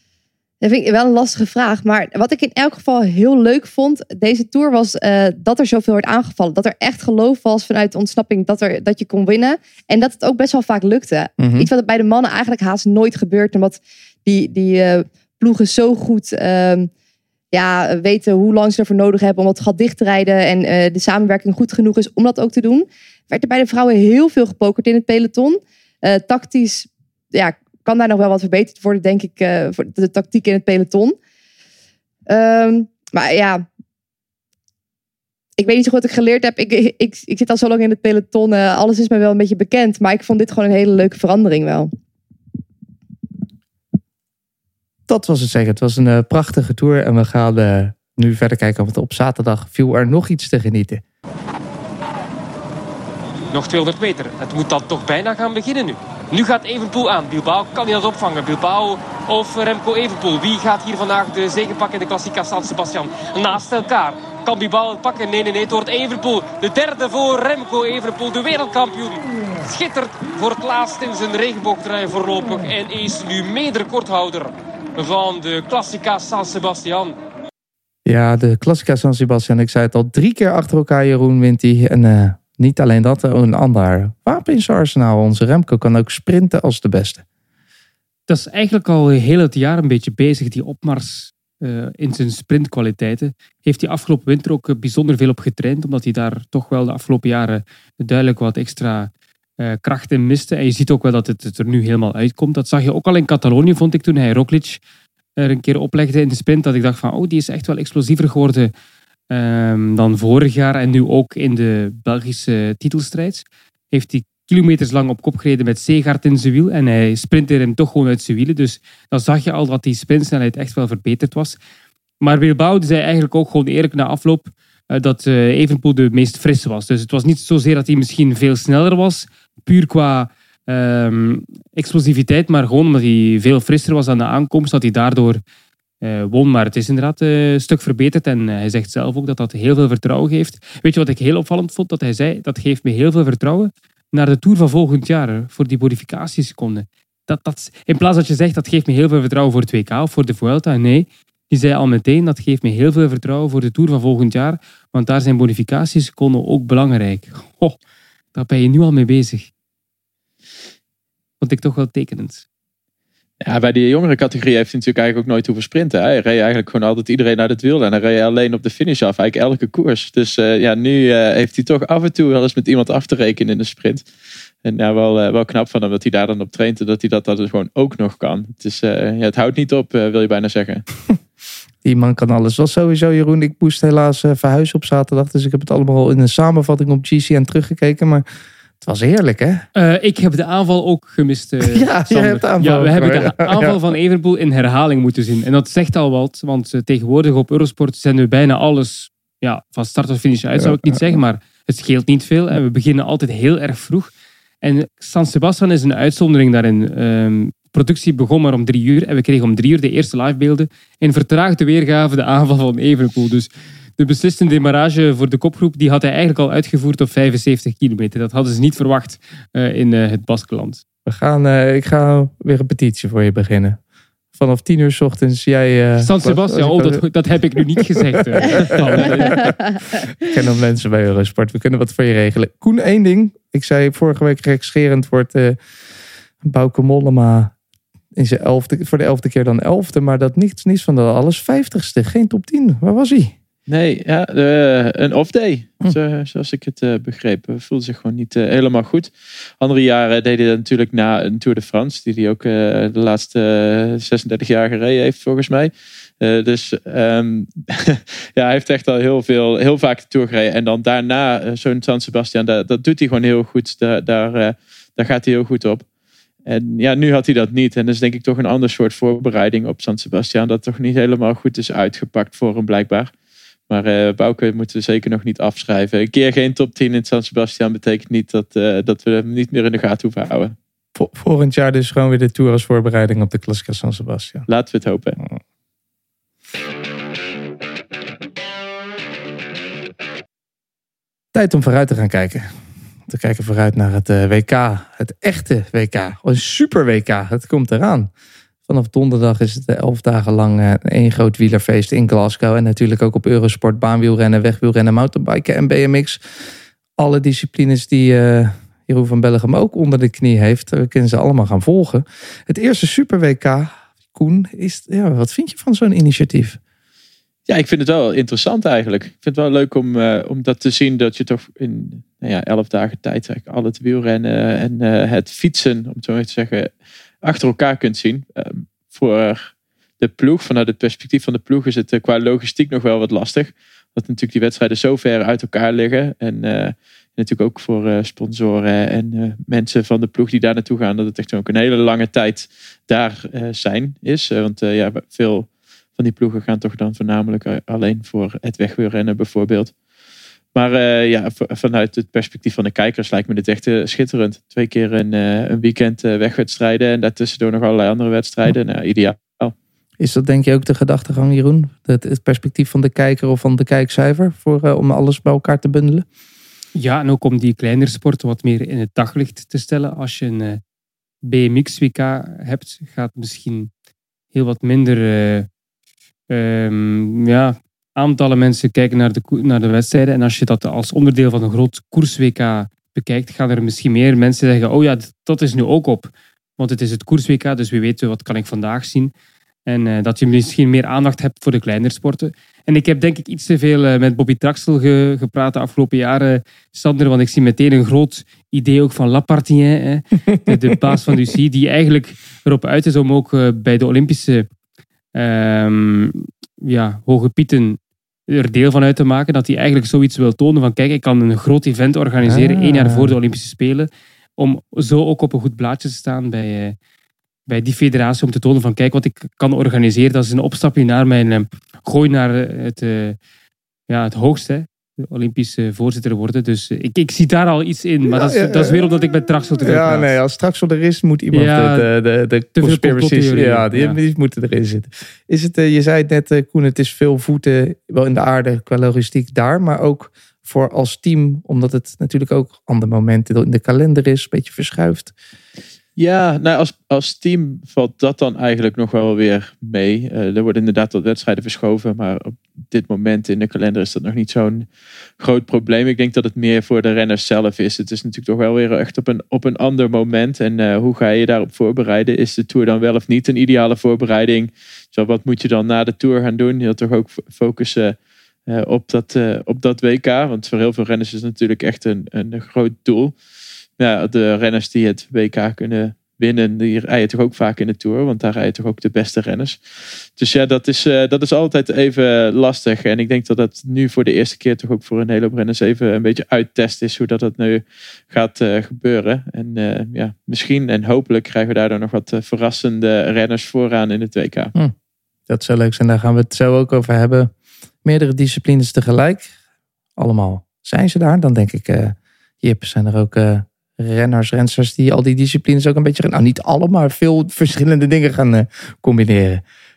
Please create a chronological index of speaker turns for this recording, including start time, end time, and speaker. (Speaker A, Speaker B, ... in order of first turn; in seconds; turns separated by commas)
Speaker A: 0.6-16.9, Speaker B: 11.4-11.7, Speaker A: 17.5-31.2, Speaker A: 32.3-33.6, Speaker A: 35.6-41.9, Speaker B: 45.1-51.0, Speaker C: 53.5-77.2, Speaker B: 78.1-87.2, Speaker D: 88.3-104.8, Speaker D: 105.4-108.7, Speaker D: 109.3-121.6, Speaker D: 122.2-135.4, Speaker D: 136.0-157.8, Speaker D: 158.3-159.5, Speaker D: 161.4-162.4, Speaker E: 163.4-174.0, Speaker E: 174.6-180.8, Speaker B: 181.8-188.3, Speaker B: 188.8-189.7, Speaker D: 189.8-204.1, Speaker B: 191.6-193.8, Speaker B: 200.6-201.2, Speaker D: 204.6-220.8, Speaker B: 221.1-223.8, Speaker B: 224.3-227.0, Speaker D: 226.0-229.4, Speaker B: 227.6-229.6, Speaker A: 229.2-229.6, Speaker B: 230.2-235.6, Speaker B: 236.4-237.6, Speaker B: 238.2-243.3, Speaker E: 243.7-265.9, Speaker E: 266.5-273.1, Speaker E: 273.7-280.6, Speaker B: 280.9-284.5, Speaker E: 284.5-285.2, Speaker B: 291.3-292.5, Speaker B: 293.1-298.1, Speaker B: 298.7-306.4, Speaker B: 307.0-316.6, Speaker E: 317.5-349.7, Speaker E: 350.5-359.5, Speaker B: 360.0-366.1, Speaker D: 366.8-370.6, Speaker D: 371.2-373.7, Speaker D: 374.3-375.5, Speaker D: 376.3-389.1, Speaker D: 389.7-404.5, Speaker D: 405.1-416.8, Speaker B: 412.2-413.1, Speaker D: 417.5-423.2, Speaker D: 423.9-430.1, Speaker B: 428.1-445.1, Speaker D: 431.3-431.9, Speaker D: 432.6-434.0, Speaker E: 446.0-454.7, Speaker E: 455.2-473.1, Speaker E: 473.8-494.5, Speaker B: 495.3-497.3, Speaker B: 497.8-499.3, Speaker B: 500.0-509.4